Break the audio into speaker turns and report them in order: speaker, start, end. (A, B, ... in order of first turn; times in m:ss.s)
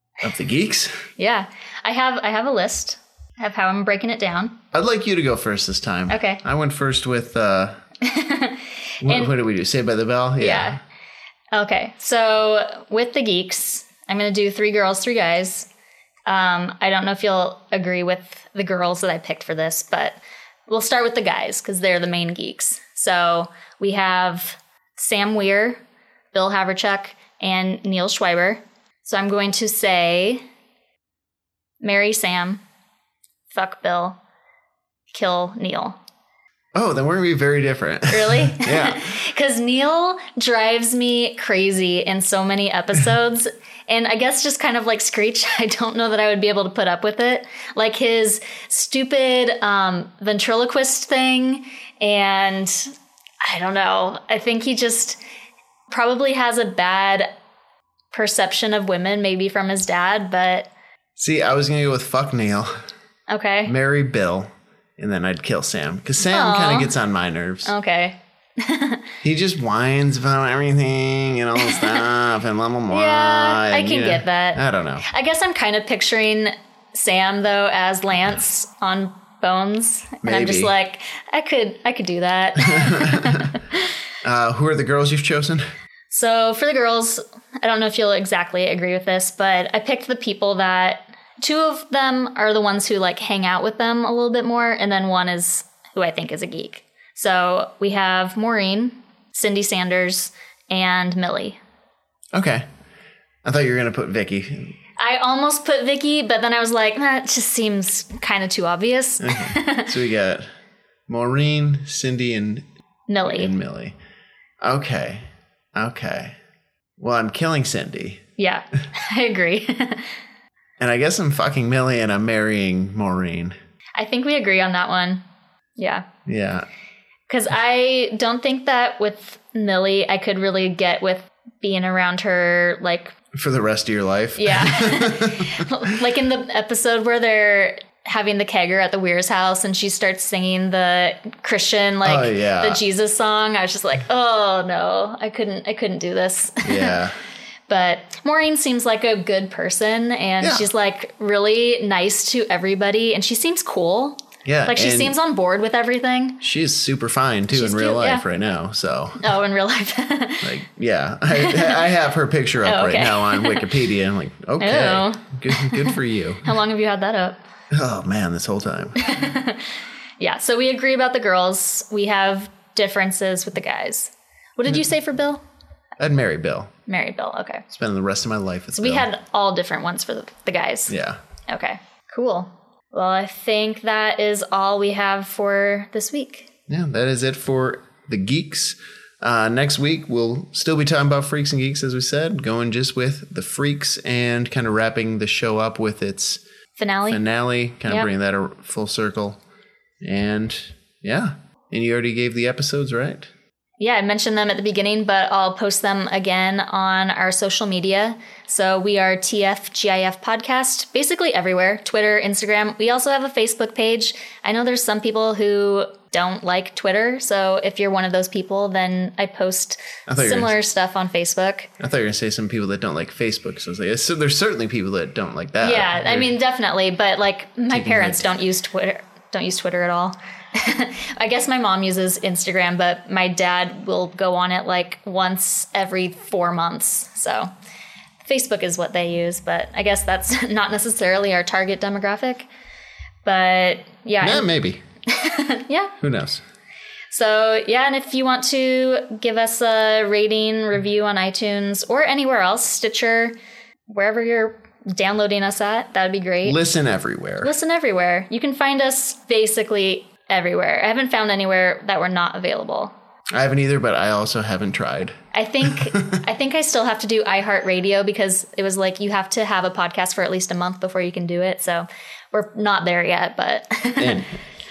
0:00.2-0:01.0 A
0:01.2-0:04.6 B
0:04.7-0:07.8 A
0:06.1-0:06.4 B
0:08.0-0:09.3 B
0:09.0-0:10.8 A
0:10.4-0:10.8 B
0:11.5-0:15.7 B
0:16.2-0:25.8 B
0:26.3-0:30.4 B
0:31.8-0:32.6 B
0:33.5-0:34.2 B
0:35.1-0:36.0 B
0:36.7-0:39.1 A
0:38.1-0:55.2 B
0:55.9-0:57.3 B
0:58.1-1:00.7 B
1:01.2-1:02.7 A
1:03.3-1:03.7 B
1:03.6-1:07.7 A
1:06.2-1:06.9 B
1:07.6-1:09.1 B
1:09.2-1:15.0 A
1:11.6-1:12.0 B
1:12.9-1:23.8 B
1:20.2-1:20.7 A
1:22.7-1:23.5 A
1:24.2-1:25.7 A
1:26.1-1:41.6 B
1:42.3-1:42.7 A
1:43.4-1:44.7 A
1:45.0-1:49.9 B
1:49.2-1:50.5 A
1:51.1-1:52.6 A
1:53.1-1:53.5 B
1:53.2-1:54.0 A
1:54.6-1:56.4 A
1:57.0-1:58.2 A
1:58.4-2:00.2 B
2:00.8-2:03.6 A
2:04.0-2:05.2 B
2:05.8-2:06.0 B
2:06.2-2:06.7 A
2:07.3-2:13.1 B
2:13.3-2:15.6 A
2:14.4-2:27.0 B
2:22.0-2:22.8 A
2:26.6-2:27.2 A
2:27.7-2:36.4 B
2:30.4-2:30.7 A
2:34.4-2:35.2 A
2:36.4-2:39.3 A
2:37.5-2:38.2 B
2:39.2-2:40.5 B
2:40.4-2:46.6 A
2:41.3-2:41.8 B
2:42.6-2:43.7 B
2:44.6-2:47.4 B
2:47.7-2:49.1 A
2:49.0-2:49.6 B
2:50.2-2:55.4 B
2:56.0-2:56.7 A
2:56.9-2:57.6 B
2:57.7-2:59.1 A
2:58.7-3:01.0 B
3:00.9-3:01.2 A
3:01.5-3:06.5 B
3:06.7-3:16.4 A
3:16.8-3:17.2 B
3:17.1-3:19.4 A
3:20.0-3:23.3 A
3:23.8-3:41.7 B
3:40.1-3:40.5 A
3:41.8-3:46.4 A
3:45.6-3:57.5 B
3:47.7-3:48.4 A
3:58.2-4:02.5 B
4:03.2-4:04.5 B
4:04.2-4:04.8 A
4:05.1-4:05.9 B
4:06.0-4:06.4 A
4:07.1-4:13.3 B
4:13.9-4:16.6 B
4:16.4-4:17.5 A
4:17.4-4:22.9 B
4:23.3-4:26.2 A
4:25.3-4:34.2 B
4:34.0-4:34.3 A